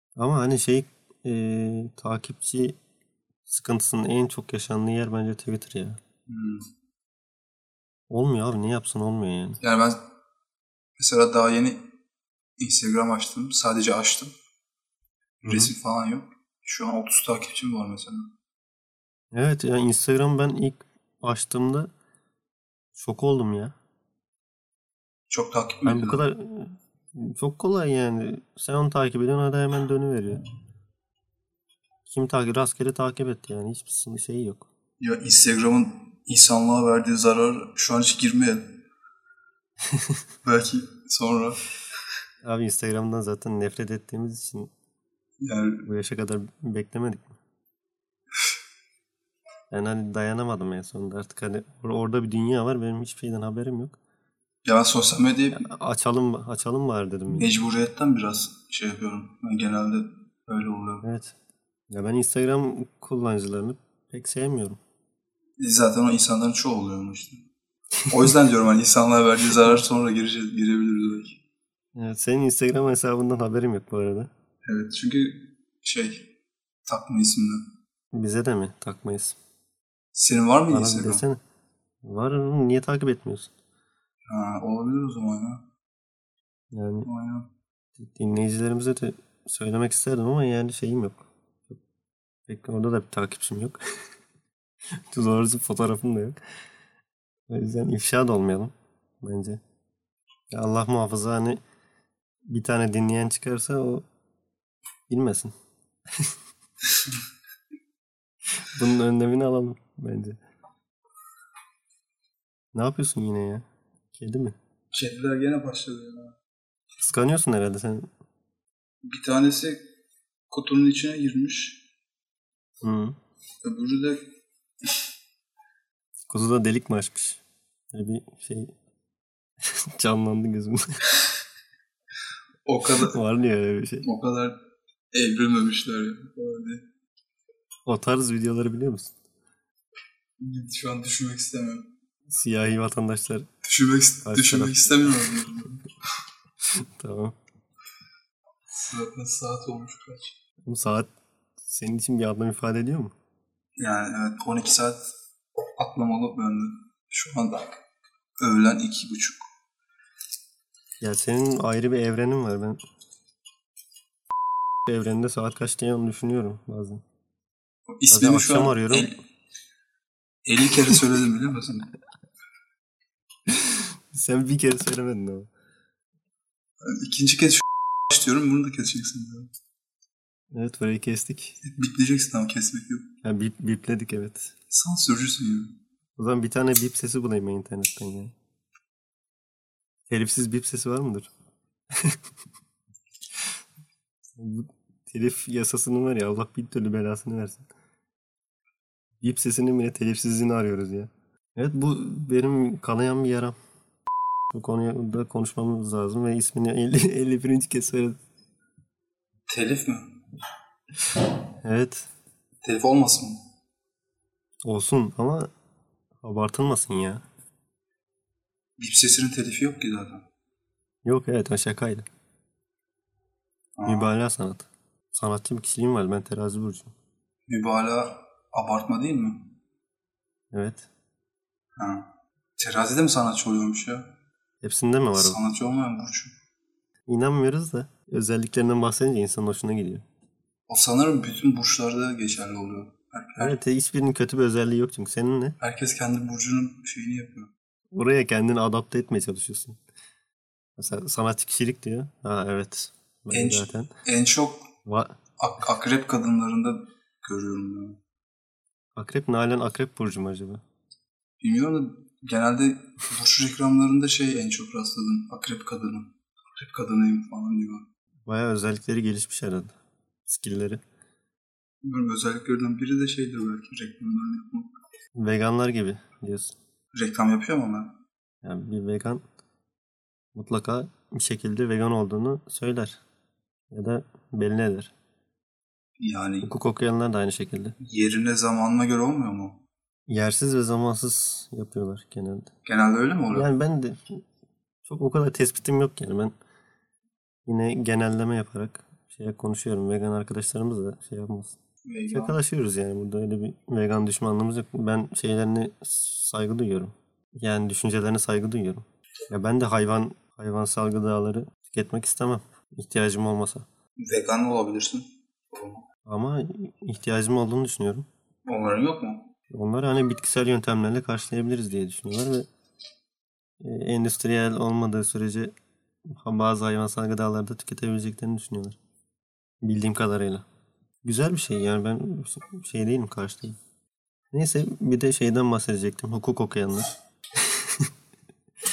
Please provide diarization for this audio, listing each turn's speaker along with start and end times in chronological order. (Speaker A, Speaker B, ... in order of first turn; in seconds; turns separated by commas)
Speaker A: 0.2-2.8, Speaker A: 3.5-6.0, Speaker B: 6.3-6.7, Speaker A: 8.1-9.6, Speaker B: 9.6-10.0, Speaker B: 11.0-11.9, Speaker B: 12.6-14.3, Speaker B: 15.4-18.3, Speaker A: 15.4-15.7, Speaker A: 19.3-21.9, Speaker A: 22.9-23.8, Speaker B: 25.3-26.2, Speaker A: 25.9-30.4, Speaker A: 32.1-34.7, Speaker B: 35.0-38.8, Speaker B: 40.4-41.6, Speaker A: 42.4-44.7, Speaker B: 45.4-45.9, Speaker A: 45.9-47.4, Speaker A: 49.7-54.0, Speaker B: 54.6-55.7, Speaker A: 55.5-57.6, Speaker B: 57.3-61.1, Speaker A: 61.0-61.4, Speaker A: 61.9-64.8, Speaker B: 65.6-67.4, Speaker B: 68.1-71.4, Speaker A: 72.0-74.3, Speaker B: 74.7-76.3, Speaker B: 76.9-77.7, Speaker A: 78.1-79.4, Speaker B: 80.1-81.2, Speaker A: 80.7-81.4, Speaker A: 82.0-83.5, Speaker B: 84.3-85.7, Speaker A: 86.7-87.1, Speaker B: 87.0-87.5, Speaker A: 88.0-91.8, Speaker A: 92.5-93.8, Speaker A: 95.1-96.4, Speaker A: 97.5-99.6, Speaker A: 100.5-101.6, Speaker A: 102.5-104.1, Speaker A: 105.1-105.5, Speaker A: 108.6-110.4, Speaker A: 112.7-114.6, Speaker B: 114.9-116.3, Speaker A: 117.0-118.1, Speaker B: 119.0-119.8, Speaker B: 120.5-121.8, Speaker A: 122.8-123.2, Speaker B: 123.6-124.3, Speaker A: 126.3-128.7, Speaker A: 129.7-131.0, Speaker B: 132.7-133.2, Speaker A: 132.8-134.1, Speaker B: 134.0-134.6, Speaker B: 135.1-136.8, Speaker A: 137.9-139.1, Speaker B: 140.4-141.9, Speaker A: 142.3-143.5, Speaker B: 143.6-145.9, Speaker A: 144.2-145.0, Speaker A: 146.7-147.4, Speaker B: 148.7-150.4, Speaker A: 150.7-151.1, Speaker A: 151.6-153.1, Speaker B: 153.8-155.1, Speaker B: 155.8-157.8, Speaker B: 158.4-159.4, Speaker A: 161.0-162.8, Speaker A: 164.9-167.0, Speaker B: 168.0-169.2, Speaker A: 168.1-169.1, Speaker B: 170.5-171.9, Speaker A: 173.5-175.5, Speaker B: 176.8-179.5, Speaker A: 180.5-181.6, Speaker B: 181.6-183.1, Speaker A: 183.2-184.5, Speaker B: 184.7-185.8, Speaker A: 186.2-188.3, Speaker A: 190.1-191.3, Speaker A: 191.9-192.2, Speaker A: 194.4-197.7, Speaker A: 199.2-203.6, Speaker A: 204.5-208.2, Speaker B: 209.5-210.2, Speaker A: 211.6-212.1, Speaker B: 212.6-213.4, Speaker A: 214.6-215.5, Speaker A: 216.2-217.2, Speaker B: 218.8-220.3, Speaker A: 221.1-222.1, Speaker B: 223.8-224.1, Speaker A: 223.9-226.9, Speaker B: 227.5-229.5, Speaker A: 230.5-230.9, Speaker B: 231.8-234.1, Speaker A: 234.6-235.4, Speaker B: 235.2-236.3, Speaker A: 237.1-240.0, Speaker B: 240.7-243.6, Speaker A: 243.4-245.6, Speaker B: 245.6-247.5, Speaker A: 247.9-249.8, Speaker A: 250.8-253.9, Speaker B: 253.3-254.7, Speaker A: 254.8-255.2, Speaker B: 255.4-258.0, Speaker A: 259.0-260.6, Speaker B: 261.4-267.9, Speaker A: 268.3-269.8, Speaker A: 270.3-270.8, Speaker B: 271.8-274.7, Speaker A: 275.2-276.6, Speaker B: 276.9-278.0, Speaker A: 278.4-279.2, Speaker A: 280.4-283.0, Speaker A: 283.7-284.9, Speaker B: 286.0-286.5, Speaker A: 286.4-287.8, Speaker B: 287.8-289.6, Speaker A: 290.1-292.5, Speaker B: 292.7-293.5, Speaker A: 293.3-294.2, Speaker A: 294.9-296.3, Speaker A: 297.5-301.6, Speaker B: 301.9-302.4, Speaker A: 302.1-313.7, Speaker B: 314.0-315.9, Speaker A: 316.1-318.1, Speaker B: 318.5-319.3, Speaker A: 319.5-322.5, Speaker A: 323.6-325.6, Speaker A: 326.1-328.8, Speaker A: 329.6-330.4, Speaker A: 331.0-333.6, Speaker A: 334.3-337.9